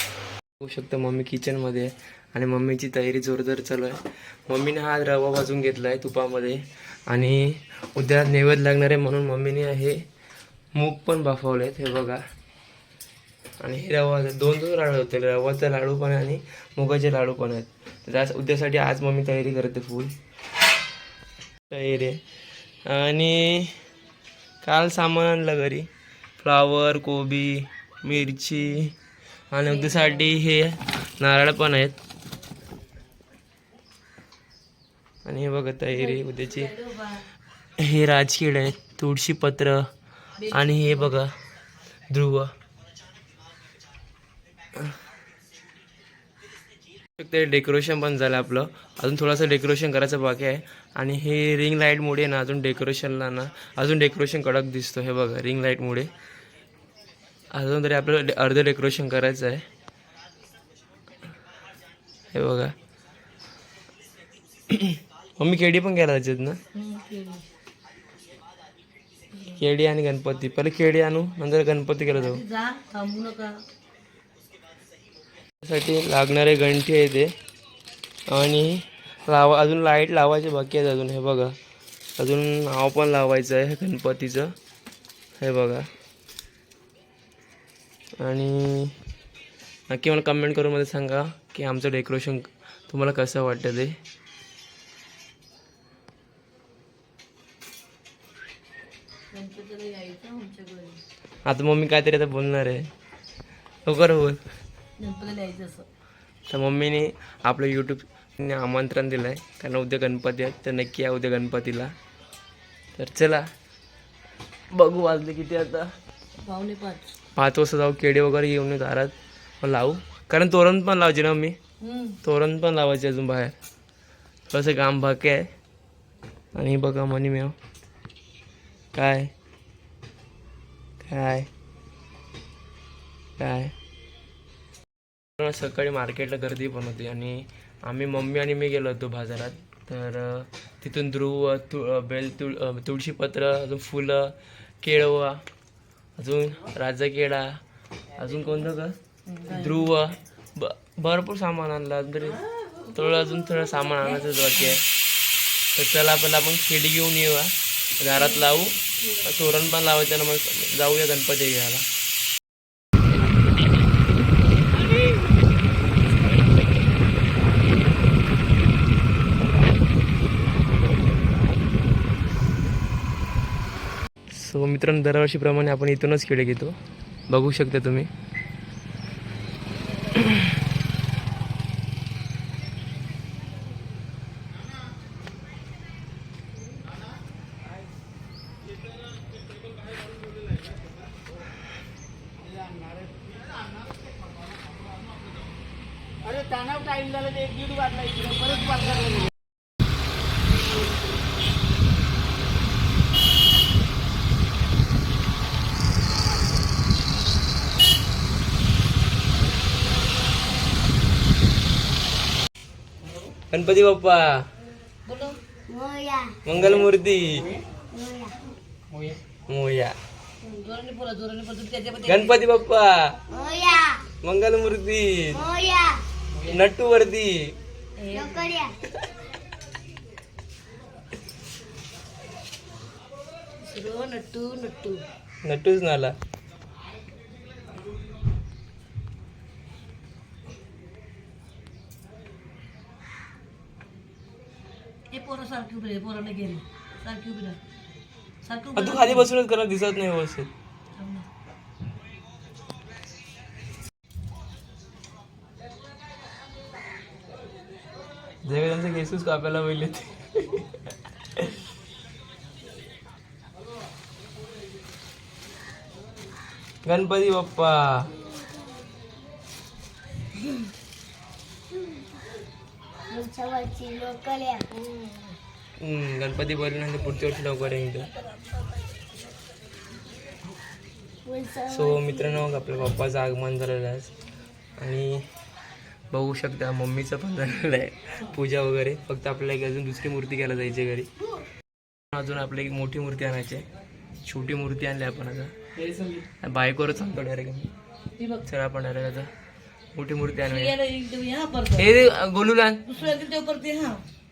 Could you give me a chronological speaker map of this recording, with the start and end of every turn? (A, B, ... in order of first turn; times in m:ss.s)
0:00.6-0:10.1 A
0:10.8-0:12.2 A
0:13.6-0:20.1 A
0:21.7-0:22.2 A
0:22.9-0:23.8 A
0:24.6-0:29.0 A
0:29.5-0:32.0 A
0:29.7-0:30.4 B
0:35.2-0:36.7 A
0:35.9-0:37.3 B
0:37.8-0:39.9 A
0:40.4-0:41.2 B
0:40.5-0:41.3 A
0:42.1-0:42.5 A
0:47.2-0:56.1 A
0:57.5-0:59.6 A
1:02.3-1:02.8 A
1:04.7-1:06.6 A
1:06.7-1:07.4 B
1:09.5-1:12.4 A
1:12.1-1:13.6 B
1:15.6-1:17.3 A
1:18.3-1:21.6 A
1:22.2-1:24.5 A
1:25.4-1:25.9 A
1:28.2-1:29.0 A
1:29.9-1:34.0 A
1:39.3-1:41.0 B
1:41.4-1:42.9 A
1:43.9-1:44.4 A
1:45.0-1:45.9 B
1:46.5-1:52.0 A
1:53.0-1:53.5 A
1:54.7-1:55.9 A
1:56.4-1:57.0 B
1:57.4-2:01.6 A
2:01.8-2:02.2 B
2:02.2-2:03.6 A
2:04.5-2:05.5 A
2:06.6-2:07.6 A
2:08.9-2:09.3 A
2:11.0-2:11.5 A
2:13.4-2:13.7 A
2:15.4-2:25.4 A
2:26.2-2:27.6 A
2:28.2-2:29.0 A
2:29.3-2:29.9 B
2:29.5-2:32.4 A
2:32.9-2:34.8 A
2:34.0-2:34.8 B
2:35.8-2:41.9 A
2:54.3-2:56.8 A
2:57.3-2:58.1 A
3:00.2-3:00.4 A
3:18.6-3:19.1 B
3:33.5-3:34.5 A
3:35.1-3:35.4 B
3:35.7-3:36.4 C
3:36.4-3:37.5 A
3:37.9-3:38.4 C
3:39.5-3:40.0 A
3:40.4-3:42.4 B
3:42.1-3:43.2 A
3:43.3-3:44.1 C
3:44.2-3:45.4 A
3:45.3-3:46.0 C
3:46.4-3:47.6 A
3:48.0-3:48.5 B
3:48.1-3:48.8 C
3:53.6-3:55.0 B
3:55.4-3:56.2 A
4:05.1-4:07.6 B
4:08.4-4:09.3 B
4:08.8-4:10.5 A
4:11.0-4:11.3 B
4:18.4-4:20.8 A
4:26.8-4:28.1 A
4:33.1-4:34.7 C
4:34.7-4:35.4 B
4:35.8-4:38.1 A
4:41.2-4:42.5 C
4:41.7-4:44.1 A
4:44.8-4:45.3 A
4:46.1-4:51.1 A
4:52.1-4:53.7 A
4:54.2-4:55.5 A
4:56.4-4:57.7 A
4:58.2-4:58.4 B
4:58.4-4:59.3 A
5:00.0-5:00.7 A
5:00.4-5:02.1 B
5:01.7-5:03.0 A
5:02.9-5:04.0 B